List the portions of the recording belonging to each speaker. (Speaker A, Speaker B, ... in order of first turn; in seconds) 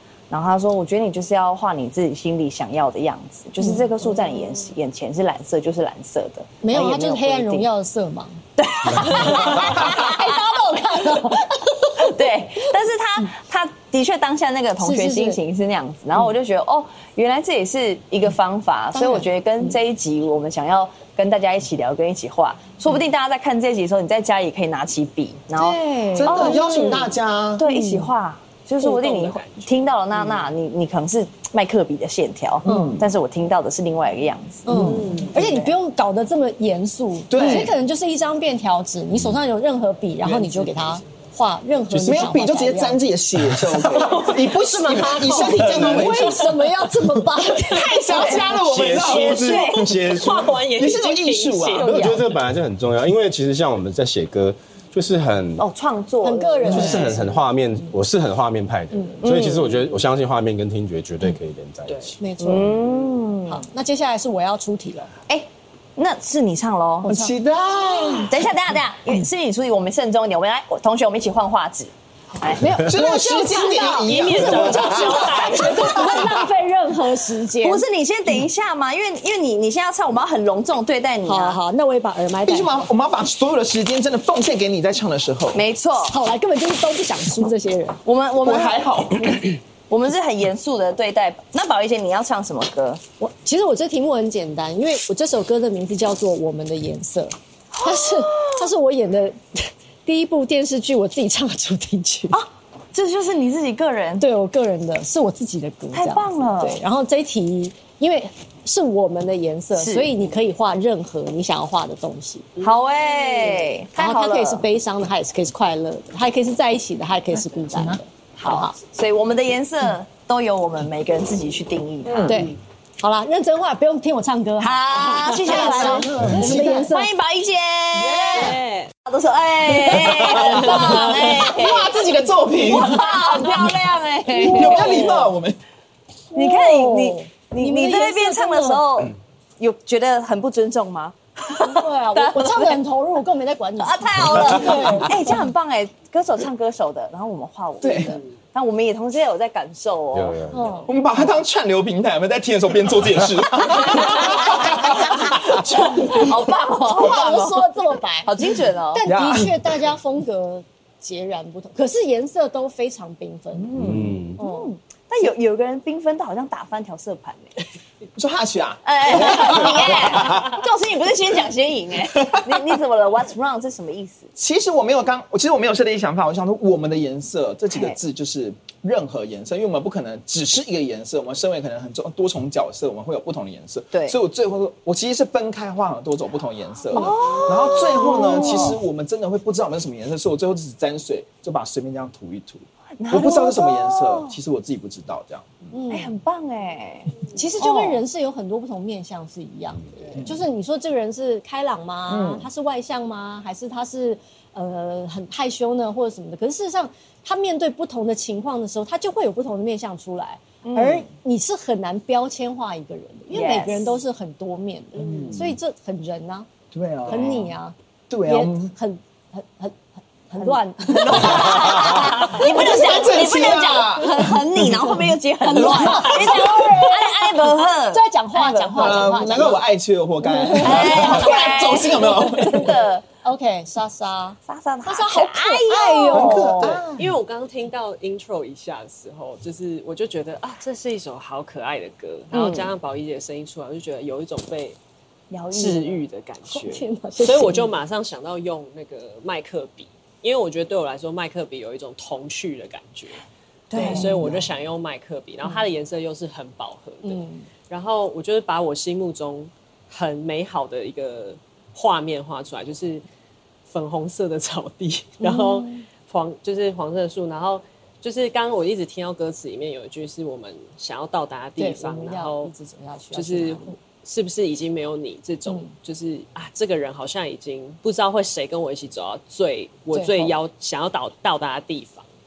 Speaker A: 0.3-7.7, 8.6-10.4, 11.9-35.8, 48.1-48.5, 51.8-52.2, 55.6-57.2, 59.2-59.8, 62.4-63.6, 65.3-67.2, 68.3-73.2, 77.6-81.6, 85.5-86.2, 88.0-93.0, 97.7-98.7, 102.3-104.3, 105.9-106.8, 109.8-110.1, 112.6-114.6, 118.4-122.5, 124.6-132.0, 132.6-135.3, 136.3-142.8, 143.8-150.4, 153.8-159.1, 163.7-167.6, 168.8-174.3, 177.7-178.0, 183.9-184.2, 186.9-188.8, 193.0-194.3, 195.9-198.0, 202.1-202.4, 210.6-211.1, 213.3-213.9, 220.4-229.1, 230.6-233.0, 234.5-236.8, 242.3-242.7, 245.3-246.0, 253.7-254.4
Speaker B: 3.6-3.9, 6.6-8.4, 9.0-11.9, 14.8-15.4, 18.9-19.3, 25.6-27.0, 27.6-28.1, 32.7-32.9, 34.7-43.0, 44.1-48.6, 56.2-57.2, 62.2-62.8, 63.5-65.1, 67.1-67.3, 72.6-77.8, 81.2-82.9, 86.1-88.0, 93.2-102.4, 104.2-112.5, 114.0-118.8, 122.2-127.1, 130.5-131.2, 134.3-135.3, 136.3-138.9, 141.5-145.4, 150.5-150.9, 156.9-158.3, 158.9-163.7, 164.4-164.7, 188.3-188.7, 195.7-196.2, 197.3-216.5, 217.1-217.8, 218.3-219.8, 220.3-223.9, 225.5-229.6, 230.2-237.0, 246.5-247.7, 253.8-254.4, 257.0-257.5, 265.2-265.8, 271.6-273.8, 279.9-280.4
Speaker C: 26.1-27.6, 32.6-33.1, 37.3-37.7, 40.2-41.0, 41.9-50.1, 50.6-52.1, 56.8-57.1, 67.0-68.3, 72.8-76.3, 82.5-85.6, 88.4-89.5, 125.3-126.8, 127.9-128.6, 129.9-133.5, 134.4-135.6, 147.8-148.2, 150.9-156.3, 159.1-159.7, 163.8-164.1, 168.2-170.5, 172.2-172.5, 174.4-195.6, 215.0-215.6, 216.7-217.5, 218.1-218.7, 221.0-224.8, 225.6-225.9, 228.7-232.7, 236.1-236.9
Speaker D: 28.8-30.4, 34.8-35.3, 44.1-44.4, 48.9-52.1, 73.9-76.3, 128.3-128.9, 236.7-244.8, 245.5-253.2, 253.7-263.0, 263.7-272.5, 273.1-282.1
Speaker E: 45.5-46.5, 48.6-50.5, 51.8-55.6, 56.6-62.2, 150.1-150.8, 163.8-164.4